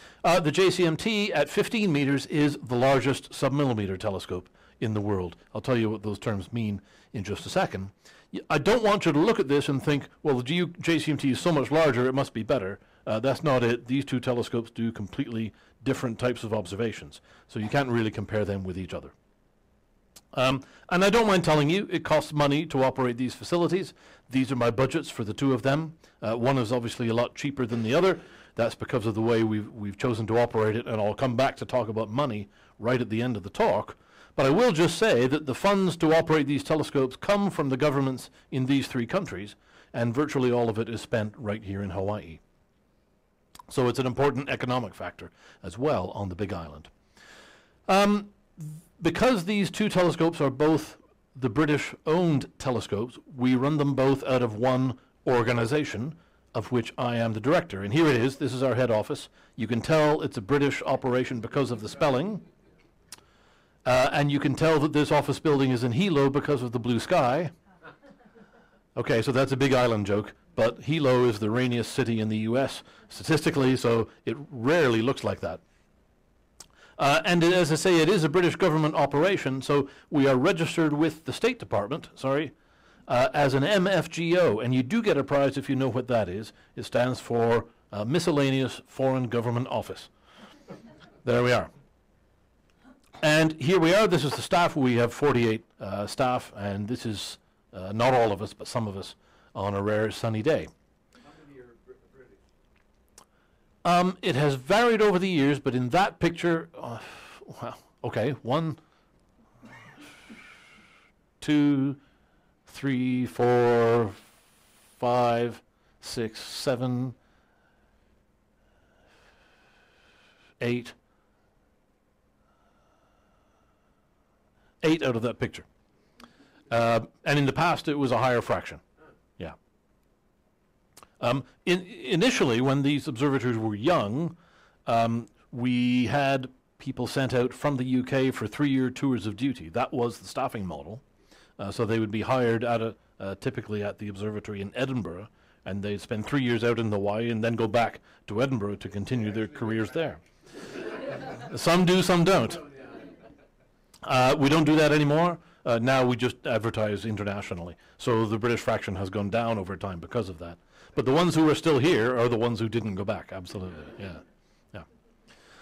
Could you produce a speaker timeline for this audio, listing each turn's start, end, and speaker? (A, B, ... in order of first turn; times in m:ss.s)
0:00.2-0:19.1 A
0:20.3-0:42.4 A
0:43.7-0:46.9 A
0:47.9-1:02.4 A
1:03.8-1:07.5 A
1:09.0-1:15.6 A
1:17.0-1:22.5 A
1:23.1-1:30.1 A
1:31.2-1:31.7 A
1:33.2-1:40.7 A
1:41.2-1:42.5 B
1:43.8-1:48.8 A
1:51.4-1:52.0 A
1:52.7-1:54.3 A
1:55.0-1:57.2 A
2:00.6-2:01.0 A
2:04.8-2:05.7 A
2:06.7-2:08.8 A
2:11.2-2:21.0 A
2:21.6-2:30.2 A
2:29.5-2:29.9 B
2:31.4-2:32.6 A
2:32.6-2:33.2 B
2:34.0-2:44.2 A